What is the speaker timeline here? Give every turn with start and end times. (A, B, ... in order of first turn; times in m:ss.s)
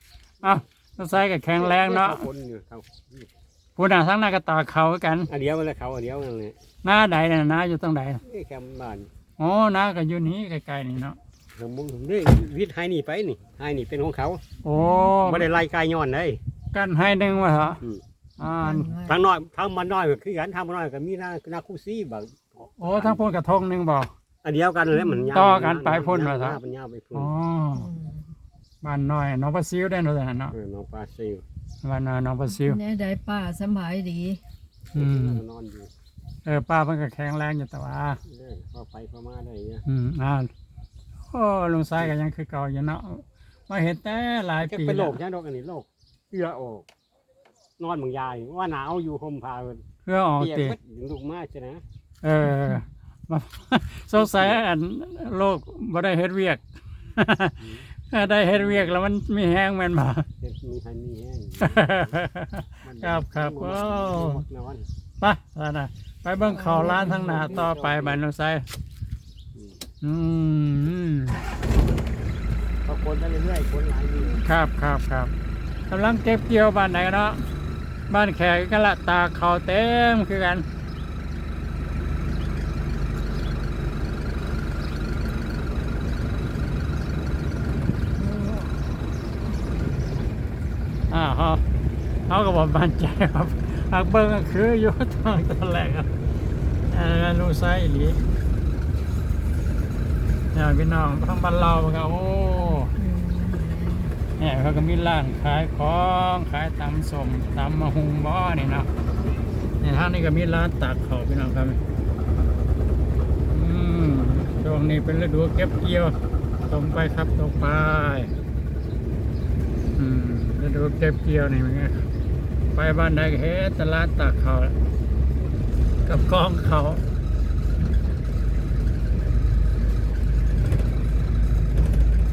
0:00.4-0:02.3 A
0:01.6-0:03.3 B
0:03.8-0:05.3 A
0:05.3-0:06.6 B
0:06.8-0:08.2 A
0:08.2-0:09.1 B
0:09.4-0:11.2 A
0:11.5-0:14.4 B
0:14.6-0:15.5 A
0:14.7-0:15.1 C
0:15.2-0:16.4 B
0:16.7-0:17.8 A
0:18.4-0:18.9 A
0:18.4-0:19.2 C
0:19.0-0:23.2 B
0:22.8-0:24.1 A
0:24.4-0:27.3 B
0:25.3-0:26.6 A
0:27.1-0:27.9 A
0:27.7-0:28.3 C
0:28.8-0:30.5 A
0:30.5-0:31.4 B
0:31.8-0:32.8 A
0:32.5-0:34.4 C
0:34.9-0:35.4 A
0:34.9-0:35.9 B
0:36.4-0:38.2 A
0:38.2-0:39.8 B
0:39.8-0:40.5 A
0:41.3-0:45.2 A
0:44.7-0:46.8 B
0:47.8-0:49.8 B
0:50.0-0:50.8 A
0:50.4-0:51.8 B
0:52.2-0:56.6 A
0:57.2-1:00.3 A
0:58.4-0:58.8 B
1:00.4-1:02.1 B
1:01.6-1:04.4 A
1:02.8-1:04.8 B
1:05.2-1:08.6 A
1:06.4-1:07.6 C
1:06.6-1:08.2 B
1:10.0-1:11.4 A
1:12.8-1:14.4 B
1:14.4-1:15.3 A
1:15.9-1:17.4 A
1:18.1-1:20.6 A
1:28.2-1:28.7 C
1:31.1-1:31.6 A
1:32.3-1:36.1 A
1:36.9-1:38.2 A
1:40.5-1:42.9 A
1:42.8-1:44.1 C
1:44.4-1:48.9 A
1:49.8-1:51.8 A
1:53.5-1:56.2 A
1:56.7-1:58.3 A
2:00.0-2:02.1 A
2:02.7-2:04.7 A
2:06.0-2:07.0 A